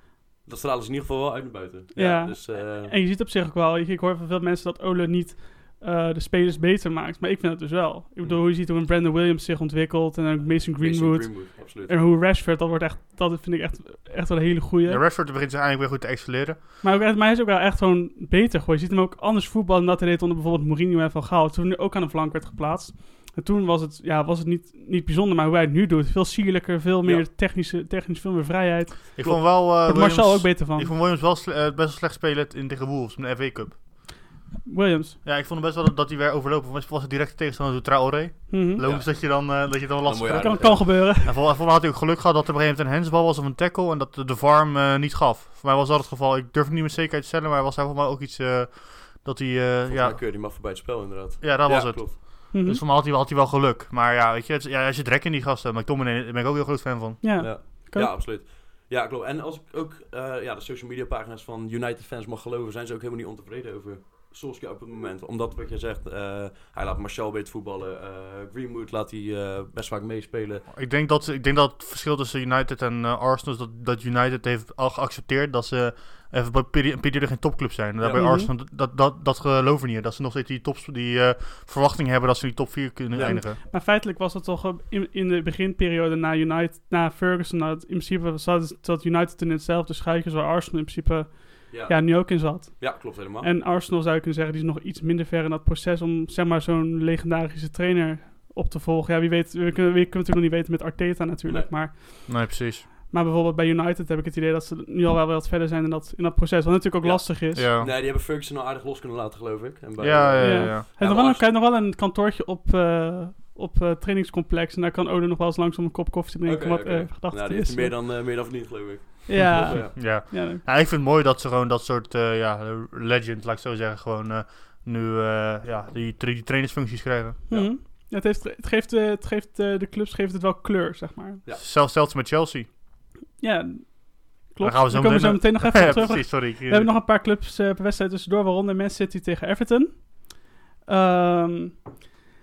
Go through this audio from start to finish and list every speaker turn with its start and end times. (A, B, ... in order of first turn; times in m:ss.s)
0:00.4-0:02.9 A
0:01.9-0:15.0 B
0:10.6-0:12.0 A
0:14.8-0:16.6 C
0:16.8-0:30.9 B
0:29.2-0:33.8 C
0:34.6-0:35.2 B
0:35.2-0:50.6 C
0:38.5-0:38.8 B
0:38.8-0:41.0 A
0:40.3-0:41.4 B
0:49.9-0:52.2 A
0:51.4-0:57.2 C
0:52.5-0:52.8 B
0:57.2-0:58.1 B
0:57.4-1:10.6 A
1:10.7-1:23.6 C
1:18.0-1:18.4 A
1:18.1-1:18.5 B
1:23.1-1:23.4 A
1:23.2-1:47.7 B
1:31.7-1:33.5 A
1:42.3-1:42.8 C
1:47.0-1:51.4 A
1:47.5-1:47.9 C
1:50.0-1:50.8 C
1:50.4-1:58.0 B
1:56.4-2:00.1 A
1:59.3-2:00.6 B
1:59.4-2:07.4 C
2:07.5-2:11.4 B
2:11.6-2:12.7 C
2:13.4-2:22.0 B
2:14.6-2:16.9 C